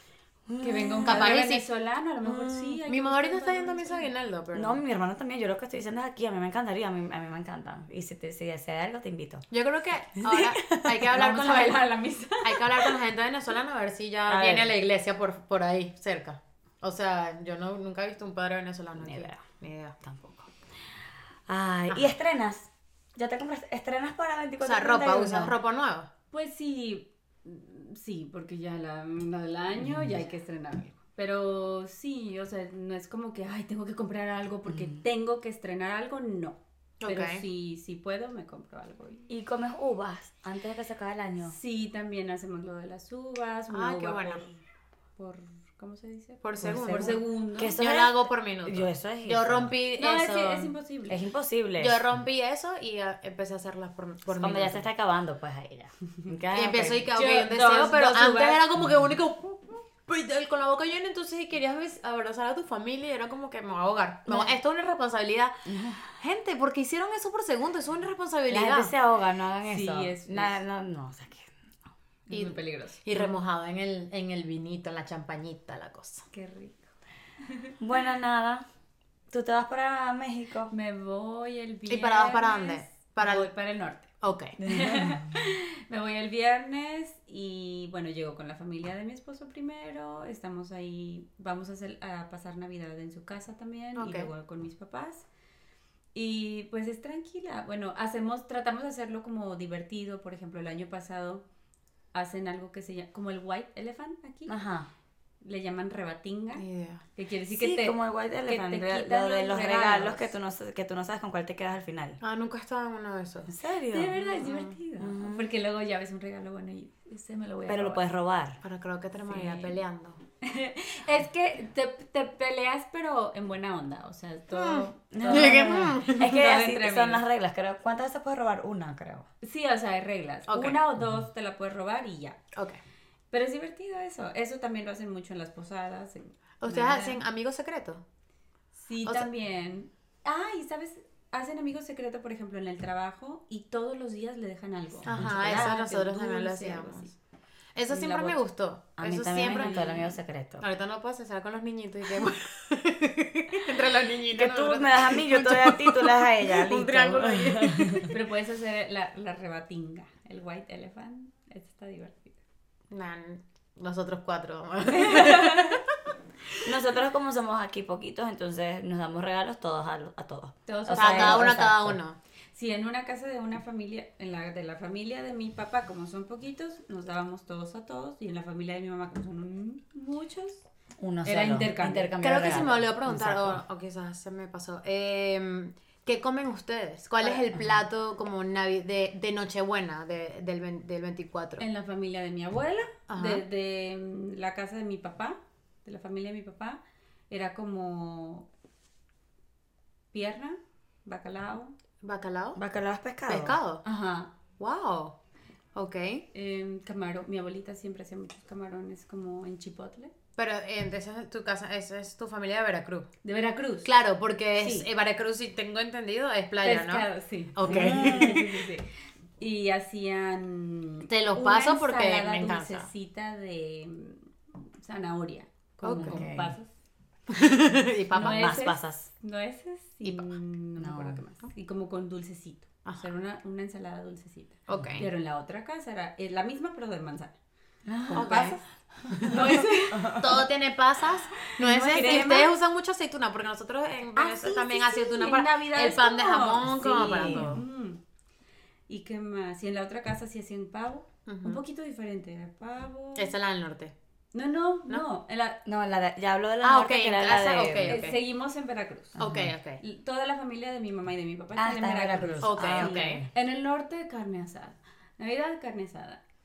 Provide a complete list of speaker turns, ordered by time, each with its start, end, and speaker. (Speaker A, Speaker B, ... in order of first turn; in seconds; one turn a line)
Speaker A: 0.5-1.4
Speaker B: 0.6-4.1
Speaker C: 1.0-1.7
Speaker C: 2.2-4.8
Speaker A: 4.5-9.4
Speaker C: 9.5-11.8
Speaker A: 10.2-11.3
Speaker B: 11.1-12.9
Speaker C: 12.4-19.9
Speaker A: 14.3-14.7
Speaker A: 18.9-19.4
Speaker A: 20.0-20.5
Speaker A: 21.5-25.5
Speaker C: 24.6-26.1
Speaker B: 26.3-39.3
Speaker A: 29.8-30.1
Speaker A: 34.7-35.0
Speaker C: 37.0-37.4
Speaker A: 39.3-41.5
Speaker B: 41.4-44.5
Speaker C: 43.7-44.5
Speaker B: 45.2-47.8
Speaker C: 46.4-50.7
Speaker A: 46.6-49.8
Speaker B: 50.0-51.2
Speaker A: 51.1-52.0
Speaker C: 51.8-54.9
Speaker A: 54.3-57.1
Speaker C: 56.5-65.5
Speaker B: 57.1-58.7
Speaker A: 65.7-66.1
Speaker C: 66.1-68.9
Speaker A: 68.5-71.5
Speaker B: 69.7-70.6
Speaker B: 72.3-73.3
Speaker C: 72.3-76.2
Speaker B: 76.3-76.9
Speaker B: 77.4-77.7
Speaker A: 77.8-78.6
Speaker A: 79.3-80.7
Speaker B: 80.7-95.3
Speaker C: 81.9-83.5
Speaker C: 84.2-84.6
Speaker A: 84.6-85.3
Speaker C: 94.0-94.3
Speaker B: 96.1-101.4
Speaker B: 102.1-104.5
Speaker A: 104.5-104.9
Speaker B: 105.4-106.6
Speaker C: 106.5-107.0
Speaker B: 107.2-110.3
Speaker A: 107.5-112.2
Speaker C: 112.2-113.5
Speaker A: 113.5-114.2
Speaker B: 113.9-118.0
Speaker C: 114.3-114.7
Speaker A: 115.0-115.5
Speaker A: 117.7-118.6
Speaker C: 118.6-120.2
Speaker B: 119.2-119.8
Speaker B: 120.4-127.2
Speaker C: 124.5-126.6
Speaker A: 125.1-129.3
Speaker B: 129.4-132.4
Speaker C: 130.5-130.8
Speaker C: 132.5-132.8
Speaker B: 133.3-137.2
Speaker C: 136.6-138.0
Speaker B: 138.8-147.1
Speaker C: 145.0-147.1
Speaker A: 145.1-145.7
Speaker C: 147.8-150.1
Speaker B: 148.0-148.3
Speaker A: 149.0-150.6
Speaker B: 149.5-150.0
Speaker C: 150.6-158.2
Speaker A: 154.3-158.1
Speaker B: 158.1-162.3
Speaker C: 162.9-165.9
Speaker B: 164.9-165.8
Speaker A: 166.6-172.0
Speaker B: 170.7-171.6
Speaker C: 170.9-172.2
Speaker B: 172.5-180.6
Speaker A: 181.0-183.6
Speaker B: 181.2-182.7
Speaker C: 182.2-191.6
Speaker A: 187.5-187.8
Speaker B: 191.6-198.5
Speaker C: 193.1-193.4
Speaker B: 200.1-201.8
Speaker C: 202.0-202.6
Speaker A: 202.6-203.6
Speaker C: 203.3-203.8
Speaker B: 203.8-204.3
Speaker C: 204.6-205.2
Speaker C: 205.7-206.2
Speaker B: 206.3-210.1
Speaker C: 210.4-213.1
Speaker B: 213.2-213.9
Speaker C: 213.8-218.7
Speaker B: 214.6-214.9
Speaker B: 216.6-218.9
Speaker A: 217.6-218.4
Speaker B: 219.4-224.3
Speaker C: 221.1-222.9
Speaker B: 224.8-226.7
Speaker C: 225.8-226.3
Speaker A: 225.8-226.5
Speaker C: 227.3-228.6
Speaker B: 228.2-237.3
Speaker A: 228.2-229.1
Speaker A: 230.8-231.2
Speaker C: 234.7-235.1
Speaker A: 234.7-235.0
Speaker A: 237.8-238.4
Speaker B: 238.0-240.4
Speaker C: 238.1-238.6
Speaker C: 239.1-247.6
Speaker A: 239.9-240.3
Speaker A: 241.6-242.4
Speaker B: 241.6-242.5
Speaker B: 244.1-248.0
Speaker A: 246.9-247.6
Speaker B: 248.9-253.3
Speaker C: 251.3-251.6
Speaker C: 253.2-253.9
Speaker B: 254.3-255.6
Speaker A: 255.6-258.0
Speaker C: 256.6-258.2
Speaker B: 257.9-259.2
Speaker A: 259.2-259.5
Speaker C: 259.2-259.8
Speaker B: 259.8-266.2
Speaker A: 261.6-263.3
Speaker C: 262.4-263.2